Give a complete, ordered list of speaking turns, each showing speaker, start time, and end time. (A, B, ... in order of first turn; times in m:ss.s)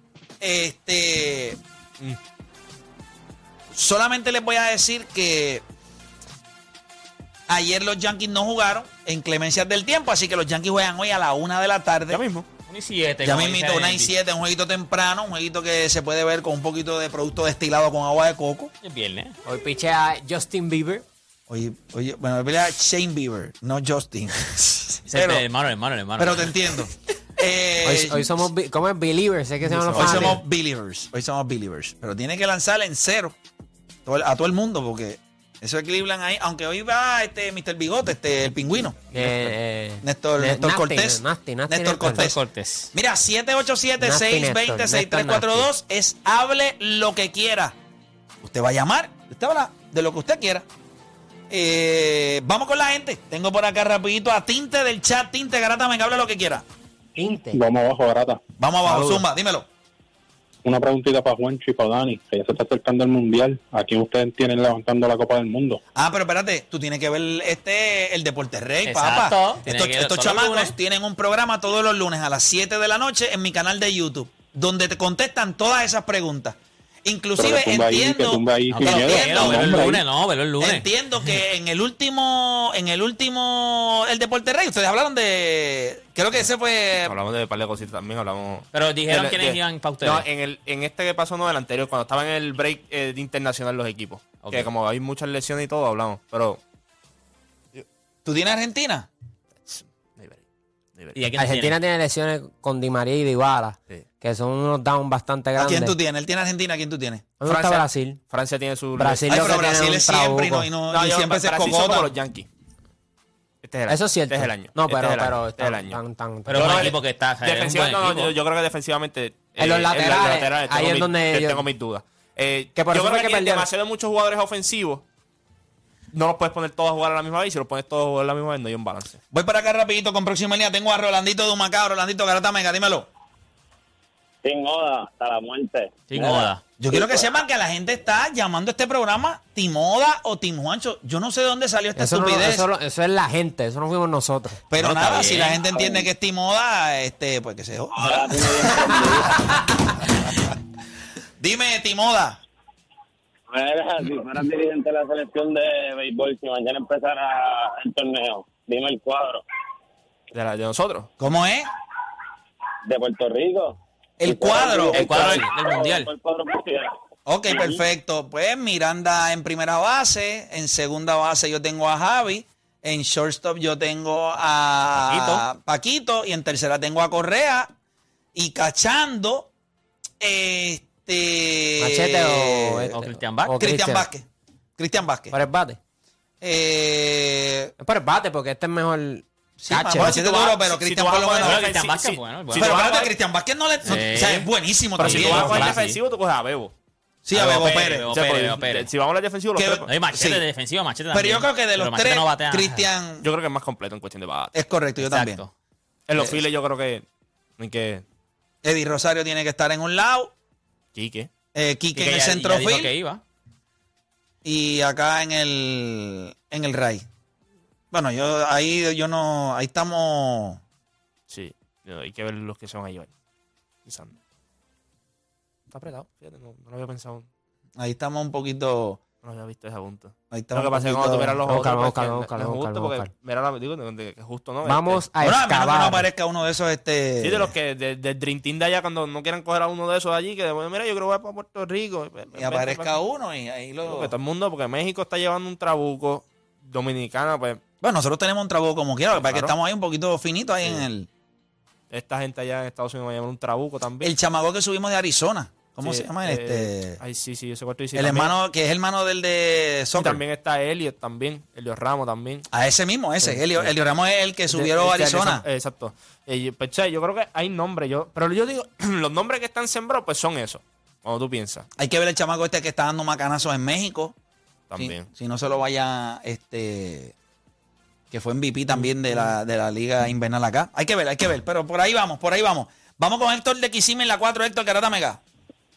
0:00.4-0:01.6 A
0:03.7-0:05.6 A
0:07.5-0:12.2 A
0:12.1-0:12.5 B
0:12.7-0:14.1 C
0:13.2-0:18.7 A
0:18.8-0:19.3 C
0:19.4-0:21.0 D
0:21.5-0:25.4 A
0:25.1-0:26.5 C
0:26.2-0:28.5 A
0:27.8-0:30.4 D
0:29.7-0:30.4 B
0:29.9-0:33.3 A
0:34.0-0:39.0 A
0:39.1-0:42.3 D
0:40.0-0:42.4 A
0:42.1-0:42.9 C
0:42.9-0:47.7 A
0:44.0-0:45.7 D
0:48.4-0:50.6 A
0:51.5-0:56.6 A
0:57.2-0:57.6 D
0:57.5-0:58.4 E
0:58.6-0:59.7 A
0:58.8-0:59.2 B
1:00.6-1:05.8 E
1:05.9-1:20.0 A
1:08.8-1:10.7 C
1:17.4-1:20.0 E
1:18.7-1:20.9 C
1:20.6-1:27.2 A
1:27.0-1:36.6 B
1:28.7-1:30.2 C
1:34.4-1:34.7 C
1:38.2-1:39.1 A
1:39.7-1:40.4 B
1:41.1-1:41.8 C
1:41.3-1:45.9 D
1:45.6-1:47.3 A
1:47.4-1:48.2 D
1:47.4-1:49.6 B
1:49.0-1:50.7 D
1:49.3-1:52.1 A
1:50.9-1:52.5 B
1:53.6-1:56.0 B
1:53.9-1:56.9 D
1:56.5-1:58.3 C
1:56.5-2:05.0 B
1:59.6-2:01.6 D
2:02.8-2:03.7 D
2:06.1-2:09.2 B
2:09.3-2:13.1 A
2:14.4-2:17.3 F
2:16.1-2:16.6 C
2:16.8-2:22.7 A
2:22.0-2:24.6 D
2:24.7-2:29.5 A
2:24.8-2:25.6 C
2:27.9-2:29.4 F
2:31.4-2:32.4 A
2:33.5-2:39.4 F
2:40.3-2:41.1 B
2:41.2-2:41.7 A
2:42.8-2:46.9 F
2:44.2-2:45.5 A
2:44.9-2:46.1 C
2:47.3-2:57.7 A
2:47.5-2:47.8 F
2:55.0-2:55.4 C
2:58.3-2:59.5 A
3:00.2-3:02.9 A
3:01.8-3:04.0 D
3:02.9-3:03.6 C
3:03.6-3:04.2 A
3:04.8-3:05.3 A
3:05.3-3:05.8 D
3:06.4-3:07.7 A
3:07.8-3:10.1 D
3:09.6-3:11.6 A
3:10.0-3:13.1 B
3:11.4-3:12.8 C
3:12.6-3:15.7 A
3:13.8-3:14.5 C
3:15.0-3:16.0 C
3:15.0-3:16.7 B
3:15.0-3:15.8 D
3:17.2-3:18.1 A
3:17.3-3:19.9 B
3:17.4-3:18.9 C
3:19.6-3:20.4 A
3:19.8-3:22.8 C
3:21.1-3:23.2 A
3:23.2-3:24.5 B
3:24.5-3:25.4 A
3:25.0-3:25.5 C
3:26.1-3:27.0 B
3:26.2-3:26.4 A
3:27.6-3:28.0 B
3:28.6-3:30.3 A
3:30.9-3:31.3 B
3:31.5-3:32.9 A
3:31.9-3:33.2 C
3:34.4-3:37.0 A
3:37.9-3:40.6 A
3:41.3-3:43.1 B
3:43.8-3:44.2 B
3:45.7-3:47.2 B
3:47.8-3:49.0 A
3:49.2-3:55.0 B
3:50.3-3:51.4 A
3:51.5-3:53.1 D
3:54.6-3:56.0 D
3:55.2-3:57.5 A
3:57.2-4:02.9 B
4:02.3-4:04.1 A
4:03.8-4:07.6 B
4:07.8-4:11.1 A
4:09.1-4:09.5 B
4:11.9-4:14.1 B
4:14.0-4:17.0 A
4:15.8-4:18.3 B
4:17.9-4:20.2 A
4:20.0-4:22.5 B
4:22.5-4:25.4 A
4:23.2-4:23.7 B
4:24.5-4:31.6 B
4:31.8-4:34.1 A
4:34.7-4:35.1 B
4:34.8-4:37.1 A
4:38.1-4:45.2 A